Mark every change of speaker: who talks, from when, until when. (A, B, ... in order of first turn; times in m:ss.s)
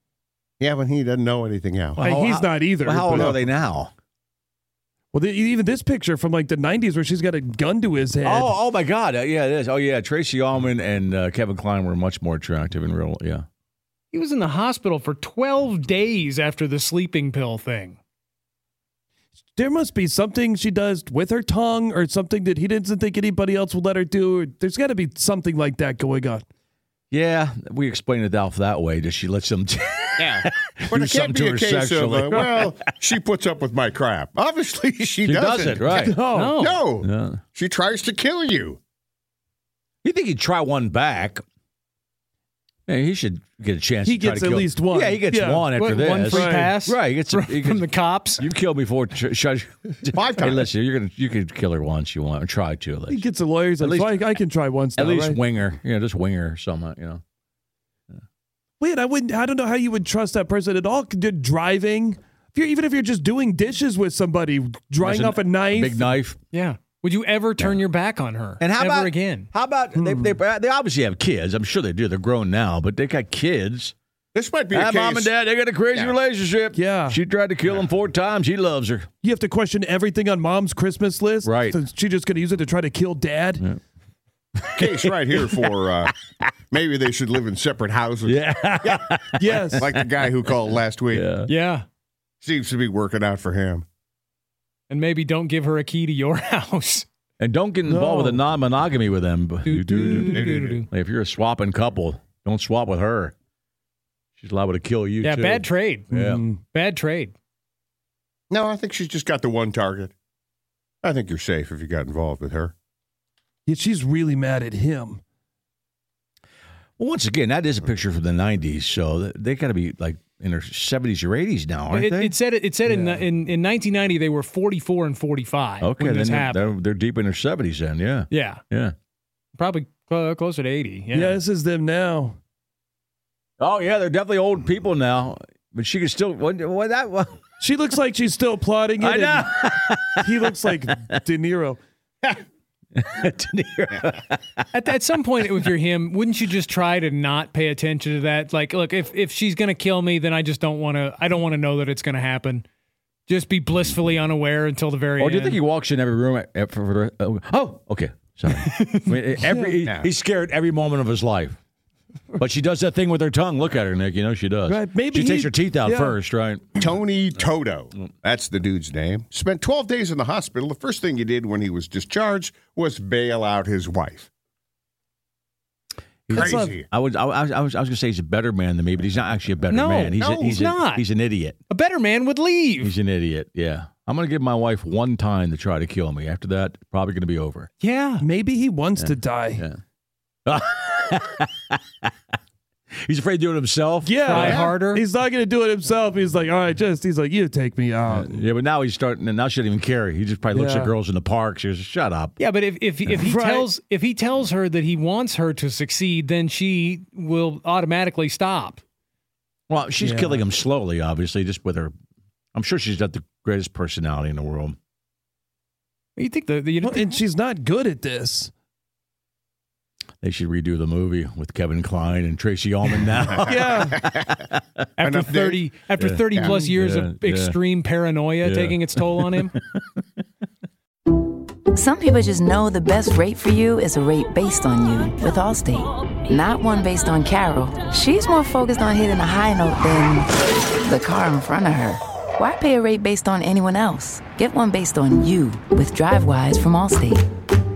0:00.6-0:02.0 A
0:02.0-0:03.4 B
0:02.0-0:03.9 C
0:03.2-0:03.4 A
0:05.1-0:08.6 B
0:08.2-0:13.5 C
0:14.1-0:18.0 D
0:19.6-0:26.4 B
0:27.1-0:32.8 C
0:30.2-0:38.8 A
0:35.2-0:36.2 C
0:35.7-0:36.7 B
0:36.3-0:36.9 D
0:37.0-0:37.4 C
0:40.0-0:41.4 C
0:42.9-0:53.3 C
0:44.0-0:45.7 B
0:45.7-0:48.4 D
0:46.3-0:46.7 B
0:50.1-0:50.7 A
0:53.1-0:55.4 B
0:53.8-0:54.3 C
0:55.0-0:57.2 C
0:58.8-1:06.2 B
1:05.0-1:06.4 C
1:06.5-1:09.5 D
1:08.6-1:13.9 C
1:09.9-1:10.4 B
1:14.3-1:15.3 A
1:14.7-1:19.1 C
1:16.7-1:17.2 B
1:19.2-1:23.7 B
1:21.4-1:21.8 C
1:24.6-1:25.7 C
1:24.8-1:26.1 A
1:26.7-1:29.0 A
1:28.3-1:29.9 C
1:29.4-1:29.9 B
1:29.8-1:31.3 A
1:31.1-1:31.5 C
1:31.5-1:31.8 D
1:32.4-1:33.8 A
1:34.9-1:37.1 D
1:37.4-1:43.4 C
1:37.9-1:38.4 B
1:39.6-1:40.9 D
1:40.3-1:40.8 A
1:44.4-1:46.4 C
1:45.2-1:46.1 D
1:46.1-1:46.6 B
1:46.7-1:47.3 D
1:48.5-1:50.1 A
1:51.0-1:52.7 A
1:53.7-1:55.2 B
1:57.0-2:02.3 C
2:01.9-2:06.8 D
2:02.9-2:03.2 B
2:05.8-2:08.9 C
2:08.3-2:08.6 D
2:09.6-2:11.4 D
2:11.1-2:12.4 B
2:13.6-2:17.4 C
2:17.6-2:19.6 B
2:19.0-2:21.0 C
2:20.2-2:21.8 B
2:23.0-2:24.6 C
2:24.7-2:32.6 D
2:33.3-2:35.6 D
2:35.2-2:41.6 C
2:38.5-2:39.6 D
2:39.8-2:40.1 A
2:42.4-2:46.8 C
2:44.7-2:46.2 B
2:46.8-2:54.3 A
2:56.3-3:01.6 C
2:56.3-2:56.8 B
2:56.3-2:56.9 A
2:59.7-3:01.0 D
3:00.2-3:00.6 A
3:01.7-3:03.0 D
3:02.8-3:07.7 C
3:07.8-3:08.2 D
3:08.2-3:09.7 B
3:09.0-3:09.8 C
3:10.5-3:11.8 C
3:13.0-3:14.7 C
3:14.0-3:18.4 B
3:14.3-3:15.0 D
3:18.0-3:22.4 C
3:20.5-3:20.9 B
3:22.4-3:28.8 D
3:23.2-3:23.7 B
3:29.7-3:31.9 C
3:30.0-3:30.5 B
3:32.5-3:34.8 C
3:36.2-3:37.2 D
3:36.8-3:38.5 B
3:40.2-3:44.3 C
3:43.5-3:44.0 B
3:45.0-3:49.6 D
3:45.0-3:45.7 A
3:46.0-3:47.6 C
3:48.4-3:50.0 C
3:51.7-4:00.3 E
4:00.8-4:07.2 E